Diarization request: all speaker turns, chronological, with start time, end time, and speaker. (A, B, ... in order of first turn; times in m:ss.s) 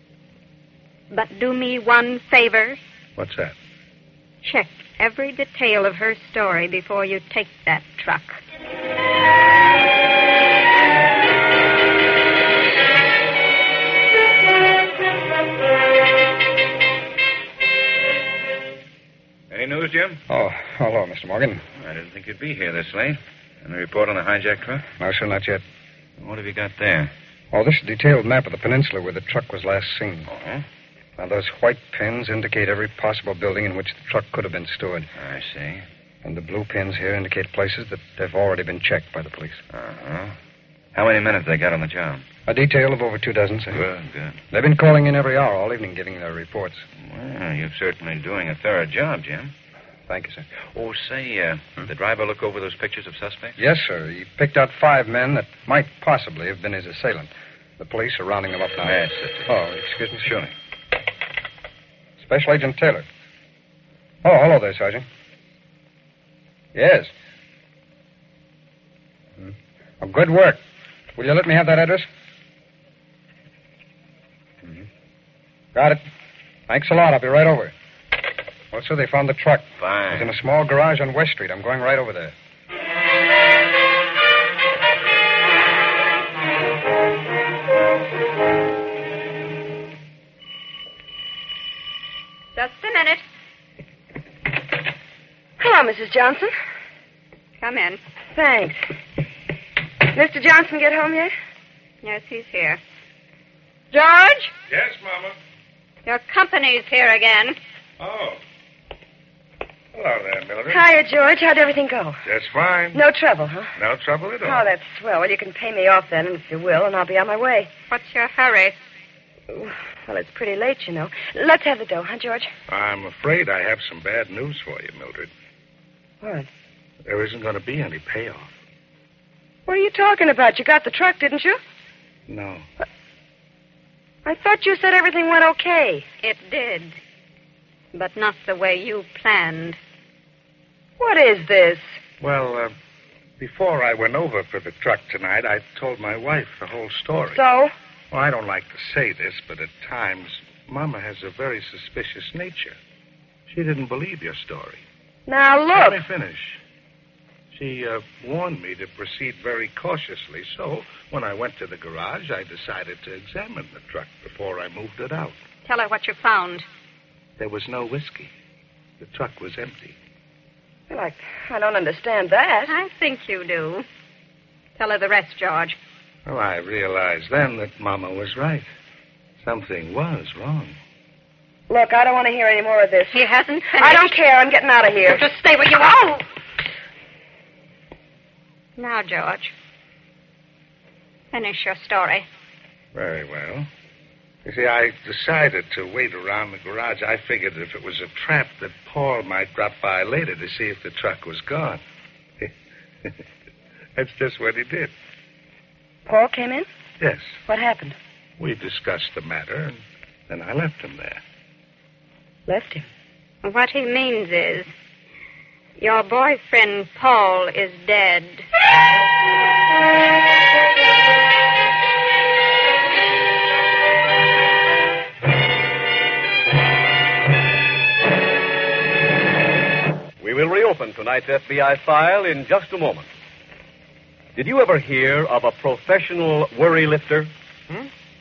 0:01.1-0:02.8 A
0:03.2-0:03.6 B
0:04.4-0:08.4 A
0:19.5-0:20.2 C
0:20.3-0:21.6 D
0:21.8-0:24.8 C
0:25.0-0:25.6 D
0:26.2-0:27.1 C
0:27.5-0:30.3 D
0:30.3-0:30.6 C
0:31.2-0:35.1 D
0:35.2-0:35.8 C
0:36.2-0:39.6 D
0:39.7-0:40.4 C
0:40.9-0:42.3 C
0:42.5-0:43.8 D
0:43.7-0:44.4 C
0:44.5-0:46.9 D
0:47.0-0:49.5 C
0:50.1-0:50.5 D
0:50.7-0:53.6 C
0:53.6-1:00.3 D
0:58.8-0:59.5 C
1:00.2-1:00.5 C
1:02.2-1:03.1 D
1:04.2-1:05.1 D
1:06.8-1:07.1 D
1:09.4-1:10.6 D
1:11.2-1:12.1 D
1:15.7-1:16.0 D
1:16.7-1:17.7 D
1:18.7-1:22.3 D
1:19.8-1:20.3 C
1:32.6-1:33.2 A
1:35.6-1:36.5 E
1:37.6-1:38.0 A
1:38.3-1:38.8 E
1:40.1-1:41.3 E
1:42.0-1:42.8 A
1:43.9-1:44.5 A
1:44.7-1:45.4 B
1:46.1-1:47.6 A
1:48.0-1:48.4 B
1:49.9-1:50.8 B
1:50.7-1:52.2 E
1:52.2-1:53.0 B
1:52.9-1:53.7 E
1:53.8-1:54.7 B
1:54.4-1:57.7 E
1:57.9-1:58.8 A
1:59.5-2:02.5 E
2:02.7-2:05.3 B
2:06.2-2:06.5 E
2:07.1-2:08.5 B
2:09.7-2:11.6 E
2:12.3-2:12.7 B
2:14.2-2:16.0 E
2:16.2-2:17.0 A
2:17.9-2:19.8 A
2:21.0-2:21.8 E
2:22.2-2:22.7 B
2:23.4-2:27.4 B
2:27.3-2:27.7 E
2:28.1-2:32.8 B
2:33.5-2:34.8 B
2:35.3-2:36.0 E
2:35.7-2:36.6 B
2:37.5-2:45.4 B
2:45.6-2:46.7 A
2:47.4-2:48.3 B
2:49.0-2:50.0 B
2:50.9-2:52.7 E
2:52.7-2:53.9 A
2:54.8-2:55.8 A
2:56.3-2:58.7 B
2:59.4-3:00.8 B
3:01.7-3:03.2 E
3:03.1-3:04.2 A
3:03.8-3:05.2 E
3:05.1-3:06.2 A
3:08.8-3:09.5 A
3:11.3-3:12.3 A
3:12.9-3:13.7 B
3:14.4-3:21.8 B
3:24.0-3:24.9 B
3:26.1-3:26.7 E
3:27.0-3:27.4 B
3:27.5-3:28.0 E
3:28.4-3:31.2 B
3:32.5-3:32.9 E
3:33.4-3:34.7 A
3:35.8-3:38.5 A
3:50.2-3:53.1 F
3:54.4-3:57.3 F